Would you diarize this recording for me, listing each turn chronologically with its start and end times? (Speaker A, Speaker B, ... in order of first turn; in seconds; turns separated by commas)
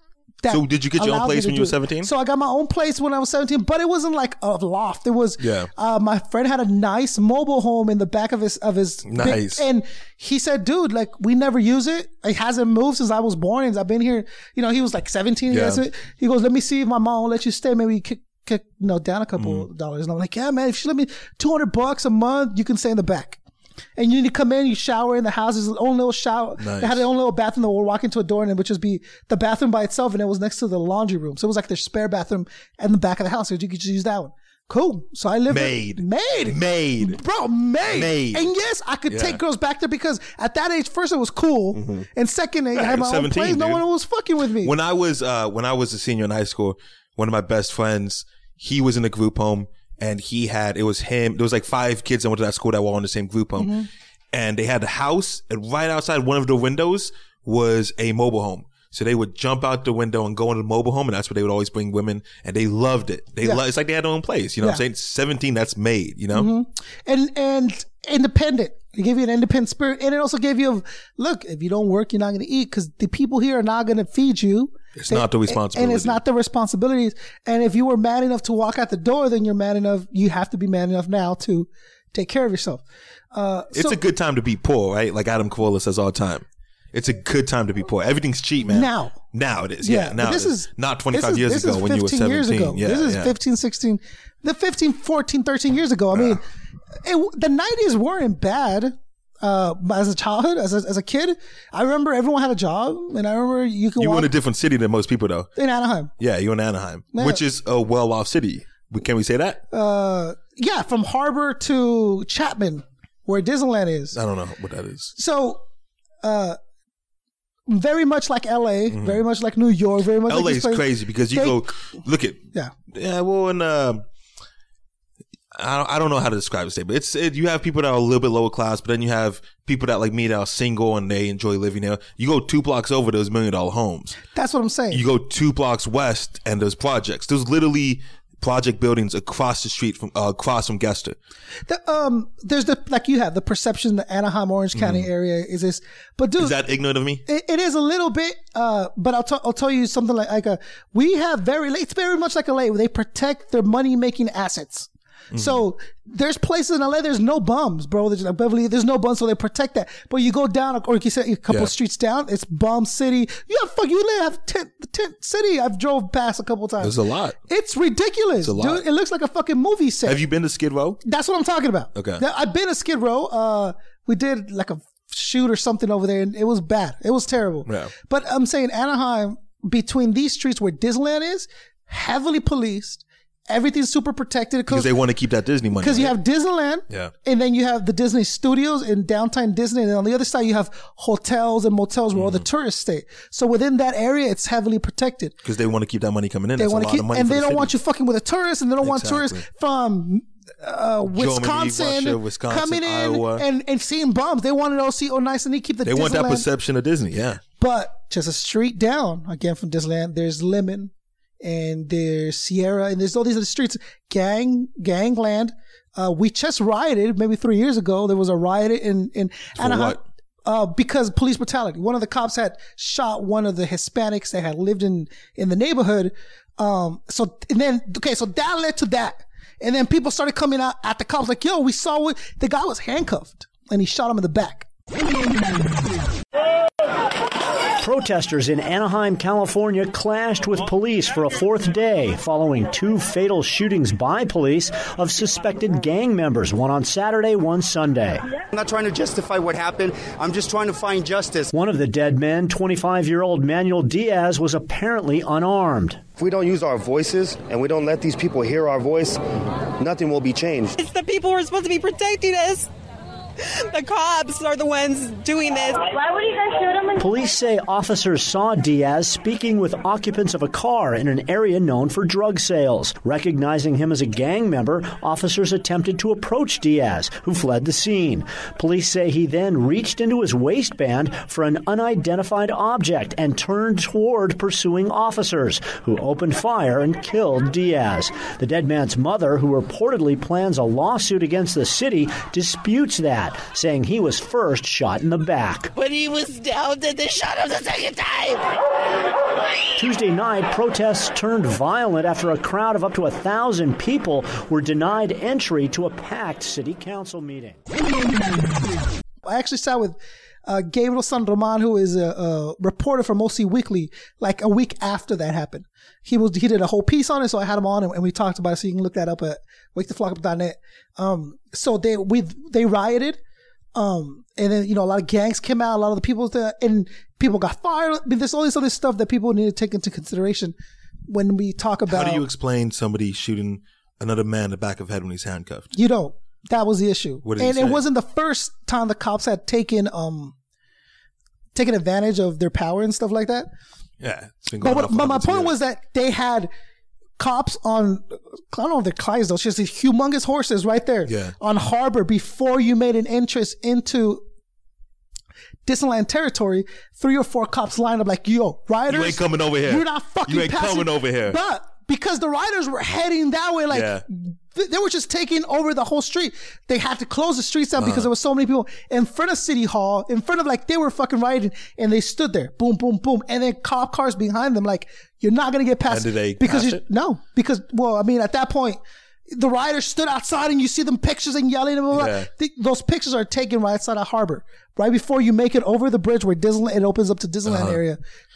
Speaker A: 0.4-23.4, Speaker B: 0.5-2.1, Speaker B: 5.4-5.7, Speaker B: 9.0-9.6, Speaker B: 15.5-15.8, Speaker B: 19.4-19.7, Speaker A: 24.0-44.7, Speaker B: 26.6-27.1, Speaker B: 35.5-37.2, Speaker B: 37.8-38.5, Speaker B: 39.1-39.4, Speaker B: 41.7-42.1, Speaker B: 42.7-43.8, Speaker B: 44.6-53.8, Speaker A: 53.6-53.9, Speaker B: 54.3-66.5, Speaker A: 66.3-84.0, Speaker B: 75.0-76.2, Speaker B: 83.7-93.3, Speaker A: 88.7-89.2, Speaker A: 89.8-96.4, Speaker B: 96.1-96.4, Speaker A: 97.0-104.3, Speaker B: 104.0-105.5, Speaker A: 105.5-106.1, Speaker B: 106.2-109.6, Speaker A: 107.1-107.4, Speaker A: 109.7-114.2, Speaker B: 114.1-115.1, Speaker A: 115.1-115.6, Speaker A: 116.2-116.6, Speaker A: 117.7-121.7, Speaker B: 118.9-119.2, Speaker B: 120.2-124.0, Speaker B: 125.5-134.2, Speaker A: 134.3-135.0, Speaker B: 134.9-141.2, Speaker A: 141.7-146.6, Speaker B: 144.7-145.1, Speaker B: 146.4-147.2, Speaker A: 147.2-166.9, Speaker B: 155.3-155.6, Speaker B: 166.8-167.4, Speaker A: 167.5-170.2, Speaker B: 168.4-168.8, Speaker B: 170.0-171.0, Speaker A: 171.0-184.9, Speaker B: 171.9-172.2, Speaker B: 177.7-177.9, Speaker B: 184.7-186.2, Speaker A: 185.8-195.3, Speaker B: 192.1-192.4, Speaker B: 195.4-197.7, Speaker A: 196.6-206.5, Speaker B: 198.8-199.4, Speaker B: 201.1-203.4, Speaker B: 205.8-207.4, Speaker A: 207.6-234.7, Speaker B: 219.6-220.0, Speaker C: 237.8-248.3, Speaker D: 248.5-251.5, Speaker C: 251.5-256.0, Speaker D: 256.2-259.2, Speaker D: 259.8-260.7, Speaker E: 260.8-262.7, Speaker E: 263.7-266.0, Speaker C: 267.0-295.7, Speaker F: 295.7-298.4, Speaker C: 299.8-307.6, Speaker A: 309.2-323.2, Speaker A: 323.7-330.5, Speaker A: 331.1-332.2, Speaker B: 331.9-335.7, Speaker A: 335.7-340.3, Speaker B: 337.2-337.8, Speaker A: 341.5-343.5, Speaker B: 344.0-345.6, Speaker A: 344.6-346.5, Speaker A: 347.2-354.2, Speaker B: 351.1-351.3, Speaker A: 355.6-388.0, Speaker B: 358.9-361.4, Speaker B: 363.7-364.0, Speaker B: 367.8-368.1, Speaker B: 375.9-376.8, Speaker B: 381.9-382.3, Speaker B: 387.4-387.8